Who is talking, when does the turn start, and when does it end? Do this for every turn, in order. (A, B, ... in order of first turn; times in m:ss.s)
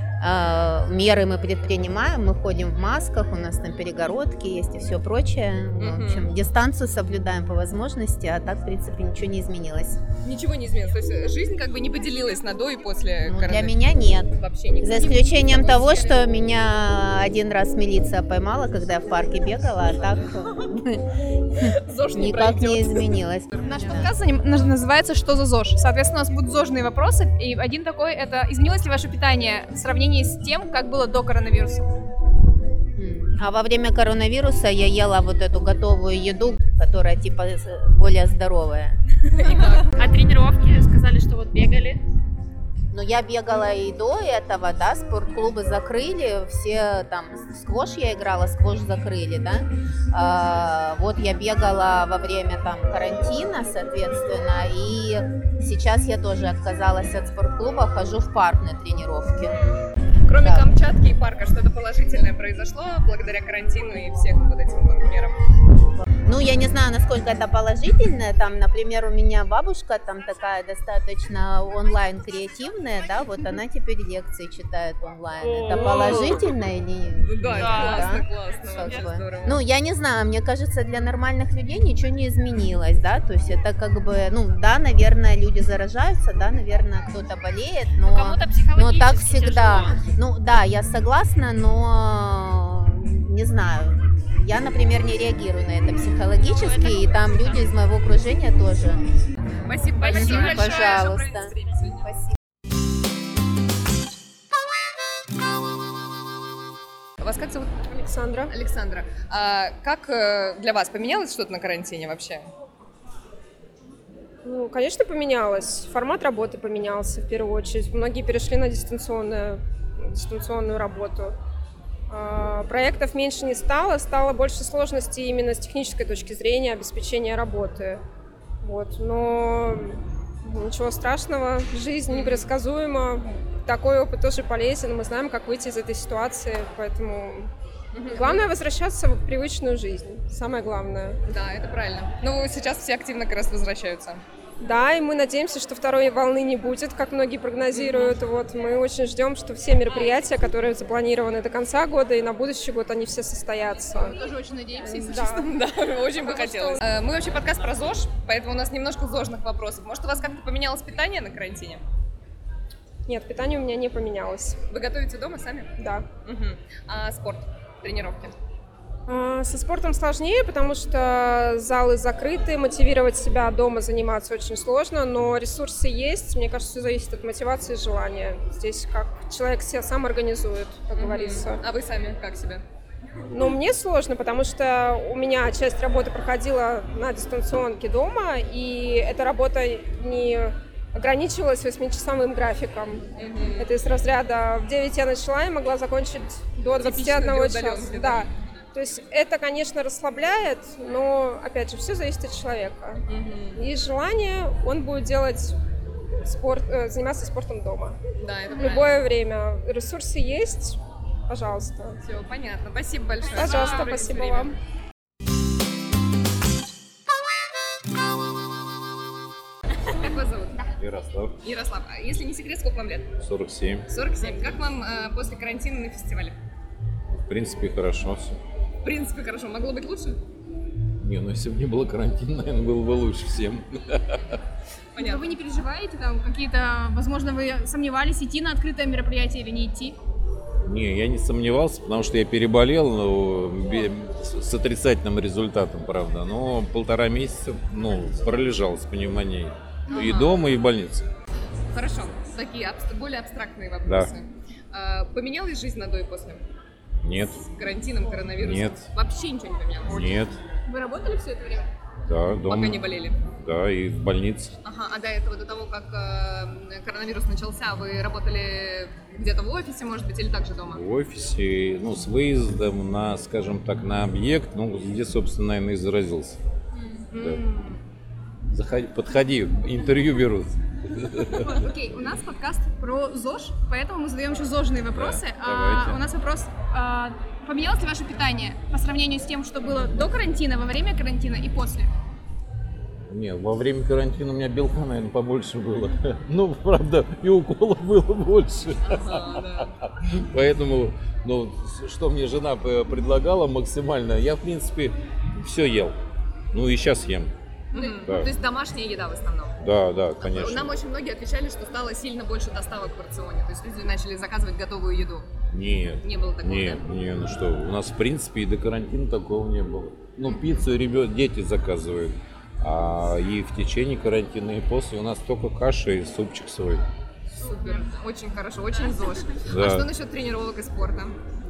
0:00.2-0:10.0 A
0:05.8-0:06.3 B
0:10.2-0:13.8 B
0:13.3-0:24.1 A
0:14.3-0:16.2 B
0:21.7-0:24.1 B
0:23.6-0:31.9 C
0:33.0-0:39.0 A
0:39.3-0:39.9 B
0:39.6-0:42.0 D
0:42.9-0:59.6 A
1:00.3-1:05.4 B
1:00.4-1:00.7 A
1:06.3-1:39.0 A
1:15.5-1:16.3 D
1:15.7-1:16.5 B
1:17.2-1:19.6 B
1:17.5-1:18.2 D
1:18.8-1:19.1 D
1:28.1-1:30.0 D
1:36.4-1:37.7 D
1:39.6-1:42.1 B
1:40.0-1:41.1 D
1:40.0-1:41.5 A
1:47.2-1:47.9 B
1:47.9-1:48.5 E
1:48.5-1:52.5 B
1:54.4-2:01.4 E
2:02.1-2:08.0 E
2:08.6-2:17.5 E
2:12.1-2:12.5 B
2:17.9-2:18.5 B
2:18.1-2:21.2 E
2:21.3-2:24.2 B
2:24.6-2:34.2 E
2:27.7-2:28.1 B
2:33.9-2:35.5 C
2:34.8-2:35.4 E
2:35.3-2:41.8 B
2:43.1-2:44.6 E
2:44.7-2:45.7 B
2:45.8-2:46.1 E
2:46.2-2:48.3 B
2:49.1-3:01.6 E
3:01.0-3:02.6 B
3:03.3-3:13.1 E
3:13.2-3:13.7 B
3:13.6-3:23.0 E
3:16.8-3:18.3 B
3:23.1-3:23.6 B
3:23.6-3:25.5 E
3:26.2-3:28.0 E
3:28.2-3:29.0 B
3:28.6-3:30.8 E
3:31.3-3:32.0 E
3:32.0-3:34.5 B
3:33.4-3:34.5 E
3:33.4-3:33.8 D
3:39.9-3:40.6 B
3:40.8-3:41.4 F
3:41.4-3:43.1 B
3:43.2-3:43.9 F
3:43.9-3:46.4 B
3:47.2-3:48.4 F
3:48.8-3:50.2 B
3:51.0-3:54.4 F
3:55.0-3:55.4 B
3:55.0-4:00.0 C
4:00.6-4:11.0 F
4:09.9-4:10.3 B
4:11.7-4:16.4 B
4:13.8-4:14.1 F
4:17.0-4:17.5 F
4:17.5-4:20.1 B
4:18.4-4:18.9 F
4:19.9-4:20.4 F
4:20.7-4:21.7 C
4:22.1-4:24.6 F
4:22.5-4:23.2 B
4:24.6-4:30.8 B
4:30.7-4:36.4 F
4:37.1-4:37.8 B
4:37.2-4:37.4 F
4:38.5-4:41.6 F
4:41.4-4:51.9 C
4:44.9-4:46.0 F
4:53.1-5:06.0 F
4:58.8-4:59.7 B
5:06.5-5:07.3 F
5:07.7-5:09.6 B
5:08.0-5:08.3 F
5:09.6-5:10.7 F
5:10.2-5:15.3 B
5:15.5-5:26.8 F
5:16.0-5:16.8 B
5:27.4-5:31.2 B
5:29.5-5:29.9 F